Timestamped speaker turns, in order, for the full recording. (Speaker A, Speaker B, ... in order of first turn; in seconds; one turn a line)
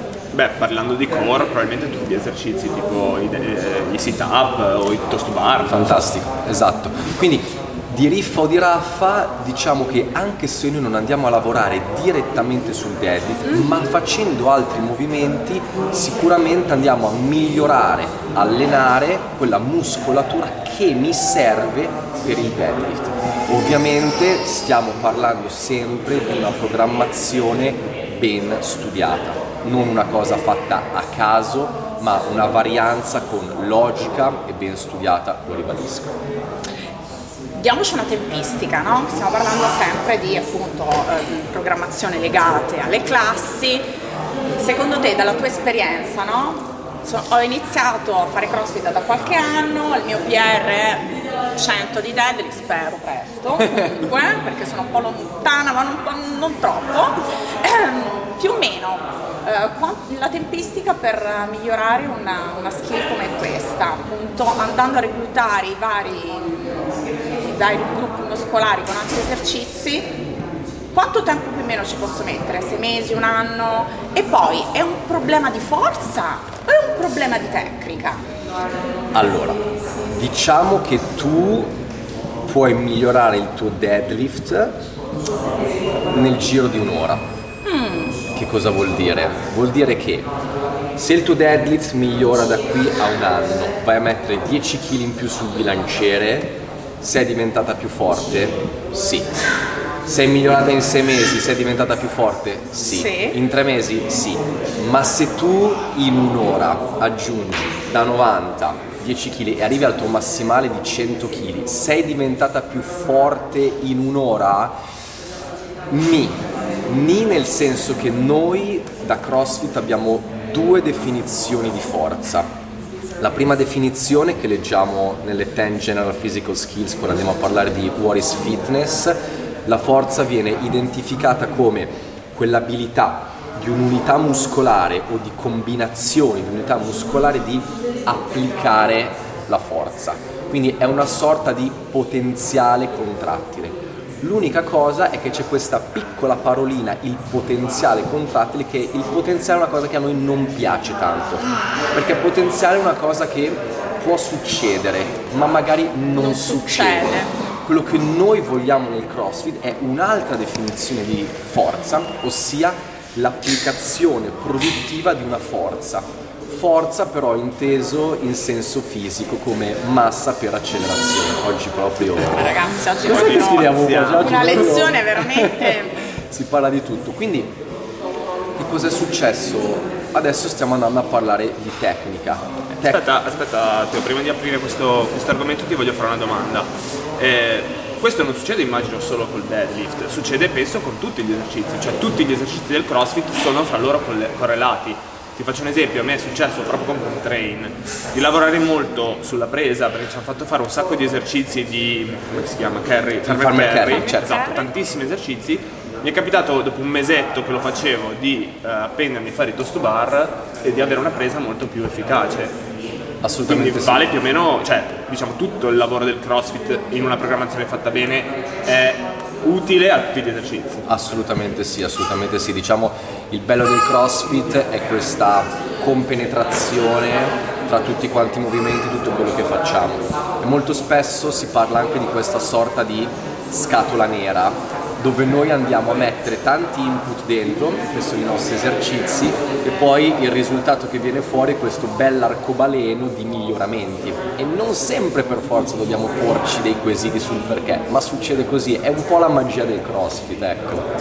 Speaker A: 0.3-6.1
Speaker B: 5.7-36.1
Speaker C: 37.5-43.8
Speaker C: 44.6-66.6
Speaker C: 67.5-70.1
Speaker C: 70.9-78.2
Speaker B: 79.1-79.6
Speaker B: 80.1-81.7
Speaker B: 82.4-84.8
Speaker B: 86.1-87.2
Speaker C: 87.6-88.2
Speaker B: 88.3-90.3
Speaker B: 91.0-99.3
Speaker B: 100.0-114.7
Speaker C: 102.9-103.4
Speaker B: 115.9-122.5
Speaker B: 123.2-151.4
Speaker B: 151.9-177.5
Speaker C: 156.2-157.4
Speaker C: 172.2-176.0
Speaker A: 173.0-174.7
Speaker B: 178.6-183.0
Speaker A: 182.8-212.6
Speaker B: 203.2-204.2
Speaker C: 203.8-204.7
Speaker B: 213.2-214.1
Speaker A: 213.5-220.8
Speaker B: 220.8-250.8